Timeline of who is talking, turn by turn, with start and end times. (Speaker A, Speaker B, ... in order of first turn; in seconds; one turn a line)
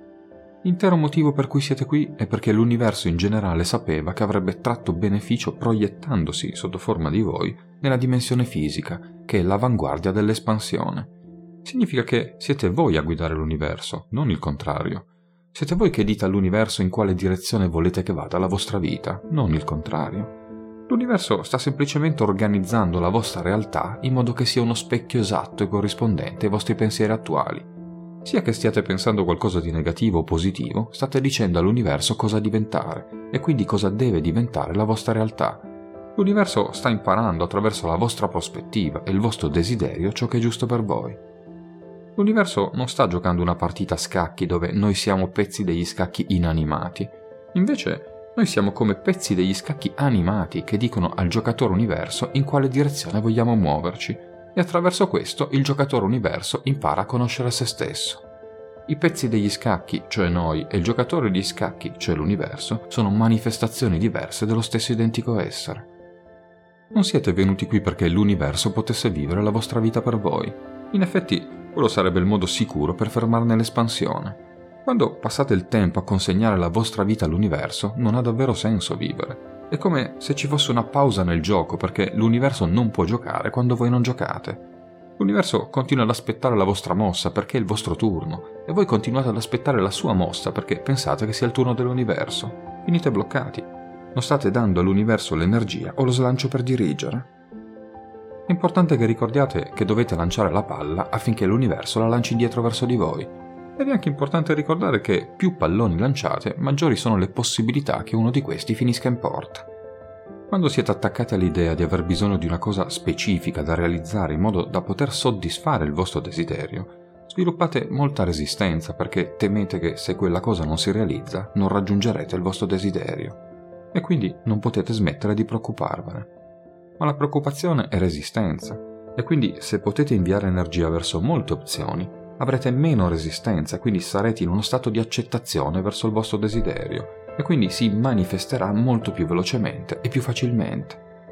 Speaker A: 0.6-11.1
Speaker A: 11.6-20.3
Speaker A: 20.9-27.7
Speaker A: 28.2-41.2
Speaker A: 42.2-58.2
Speaker A: 58.9-65.9
Speaker A: 66.9-84.7
Speaker A: 85.2-97.3
Speaker A: 98.5-109.7
Speaker A: 110.5-123.4
Speaker A: 123.9-126.3
Speaker A: 127.0-141.0